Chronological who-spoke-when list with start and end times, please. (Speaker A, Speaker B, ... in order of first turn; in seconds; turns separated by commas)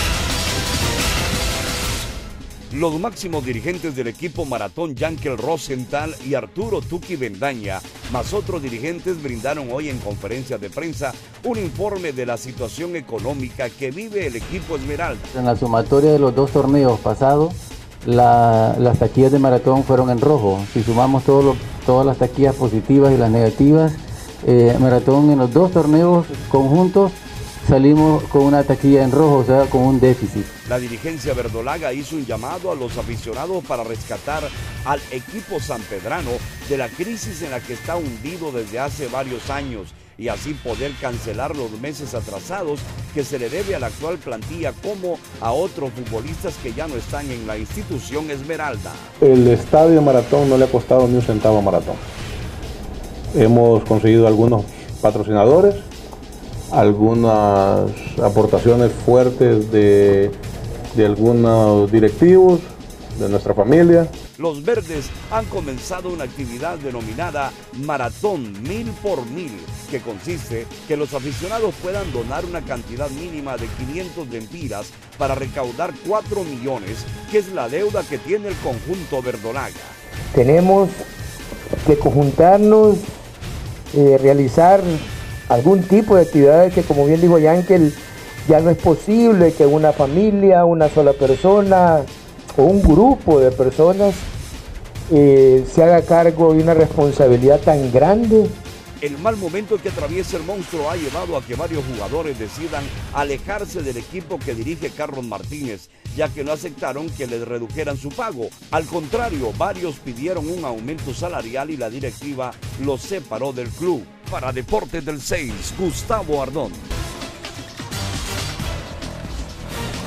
Speaker A: 2.7-15.3, Speaker B: 15.3-30.5, Speaker A: 30.6-49.1, Speaker C: 49.2-52.0, Speaker C: 53.3-55.9, Speaker C: 56.7-60.4, Speaker C: 60.9-64.1, Speaker A: 64.4-80.0, Speaker D: 80.3-81.1, Speaker D: 81.8-83.0, Speaker D: 83.9-85.0, Speaker D: 85.5-94.3, Speaker D: 95.1-98.5, Speaker A: 99.0-116.9